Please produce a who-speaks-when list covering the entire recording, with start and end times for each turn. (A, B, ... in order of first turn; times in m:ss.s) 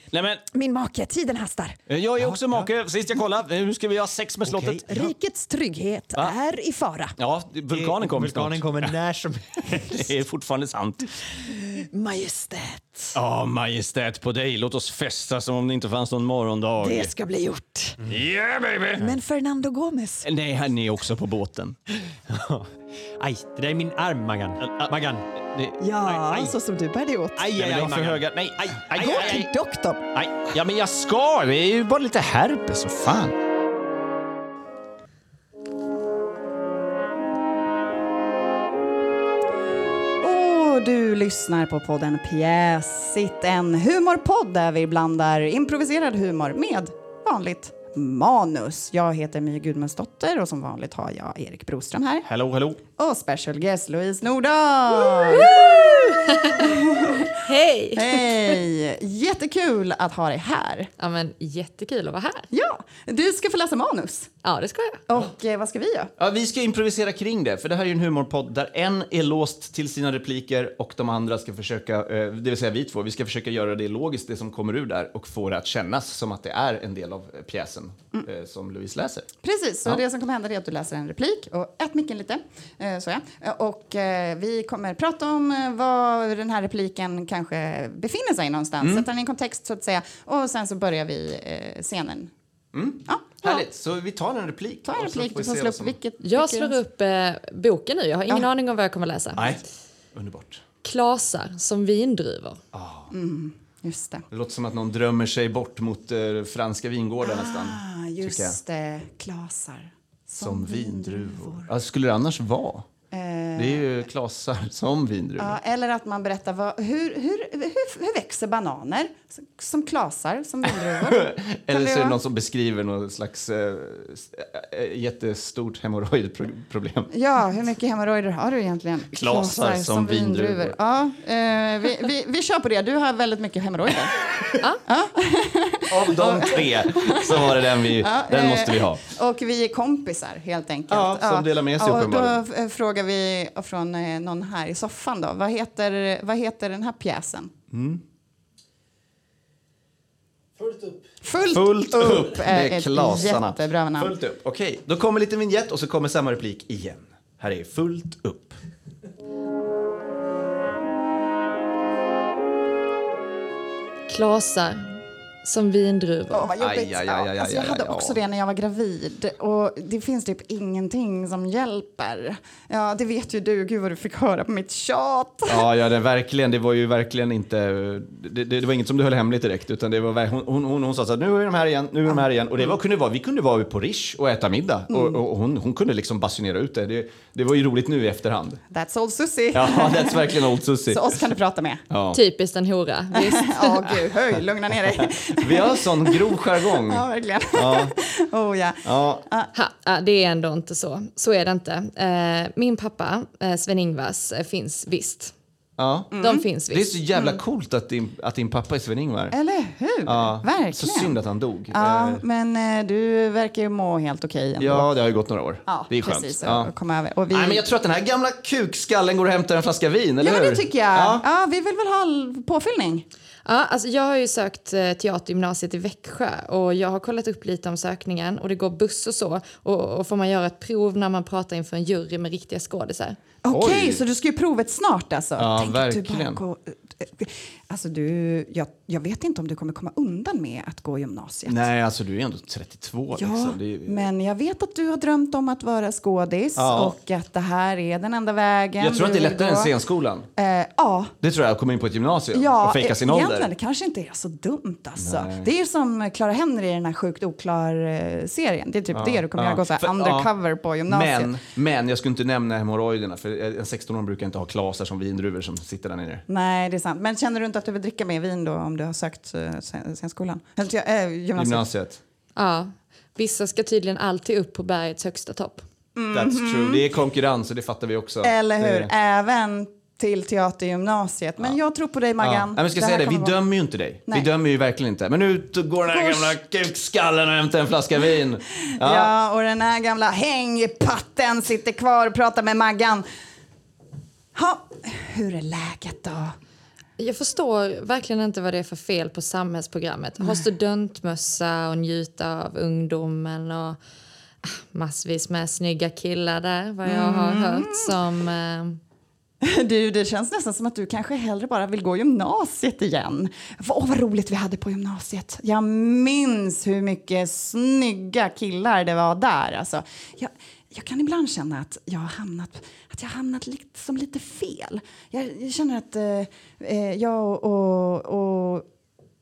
0:00.1-0:00.4 A
0:00.5-0:01.8 B
0:01.9-0:05.1 A
0:02.2-0:02.6 C
0:04.4-0:05.0 C
0:04.9-0:07.1 B
0:07.2-0:09.0 A
0:07.7-0:10.1 C
0:09.7-0:11.2 A
0:11.4-0:13.2 B
0:13.1-0:17.1 A
0:16.8-0:18.0 B
0:18.1-0:19.1 A
0:19.0-0:20.3 B
0:20.2-0:21.8 A
0:22.3-0:25.3 C
0:24.6-0:25.8 A
0:25.8-0:27.5 B
0:26.1-0:26.6 C
0:27.4-0:29.4 C
0:27.5-0:29.5 A
0:29.0-0:30.0 B
0:30.2-0:33.4 A
0:40.2-0:52.2 D
0:52.2-0:52.8 A
0:53.0-0:56.0 D
0:55.2-0:56.7 E
0:56.6-0:57.3 D
0:57.4-0:58.6 E
0:58.0-1:00.9 D
1:01.0-1:02.5 E
1:02.5-1:04.3 D
1:04.4-1:05.0 E
1:05.1-1:06.0 D
1:06.2-1:19.3 A
1:19.4-1:32.3 D
1:28.8-1:29.1 A
1:32.7-1:36.0 A
1:33.1-1:33.6 D
1:34.8-1:36.8 D
1:36.2-1:39.6 E
1:39.4-1:39.6 A
1:40.1-1:40.6 A
1:40.8-1:42.6 E
1:42.7-1:43.1 A
1:43.1-1:44.2 D
1:44.3-1:48.6 A
1:47.2-1:51.7 D
1:50.4-1:52.9 A
1:53.1-1:53.9 D
1:53.6-1:55.6 A
1:55.4-2:02.2 D
2:00.6-2:07.1 A
2:07.1-2:14.2 D
2:09.1-2:10.8 A
2:14.9-2:27.5 D
2:15.9-2:19.2 A
2:20.9-2:22.4 A
2:27.7-2:28.0 A
2:31.2-2:34.2 D
2:31.5-2:38.6 A
2:44.1-2:44.8 E
2:45.4-2:46.6 E
2:46.3-2:55.7 D
2:46.6-2:48.2 A
2:46.7-2:47.3 B
2:55.5-3:08.6 A
3:04.9-3:05.2 D
3:08.7-3:11.8 D
3:09.5-3:11.2 A
3:11.9-3:12.2 A
3:12.1-3:14.0 E
3:13.1-3:19.5 D
3:14.9-3:18.0 A
3:18.8-3:19.2 A
3:19.5-3:25.3 E
3:25.8-3:26.2 A
3:26.1-3:26.5 D
3:26.2-3:27.1 E
3:26.7-3:29.4 A
3:27.1-3:27.4 D
3:29.3-3:31.2 D
3:30.0-3:32.2 A
3:31.7-3:34.9 D
3:34.6-3:36.7 A
3:35.7-3:37.7 D
3:37.3-3:41.3 A
3:40.2-3:43.0 D
3:43.4-3:53.2 E
3:53.4-4:01.7 D
3:53.5-3:54.0 A
3:55.4-3:56.4 A
4:01.5-4:04.1 A
4:03.1-4:09.8 D
4:06.6-4:07.0 A
4:08.8-4:10.3 A
4:10.4-4:11.1 D
4:11.2-4:13.5 A
4:12.3-4:21.4 D
4:15.0-4:15.5 A
4:18.9-4:26.2 A
4:26.3-4:31.7 D
4:31.4-4:32.0 A
4:32.4-4:35.6 E
4:36.0-4:36.9 D
4:36.1-4:38.9 A
4:38.2-4:43.4 D
4:42.2-4:49.1 A
4:45.9-4:46.3 D
4:48.8-4:53.1 D
4:54.4-4:56.3 D
4:57.0-5:03.8 E
5:04.4-5:08.8 E
5:06.8-5:08.0 D
5:09.4-5:28.7 D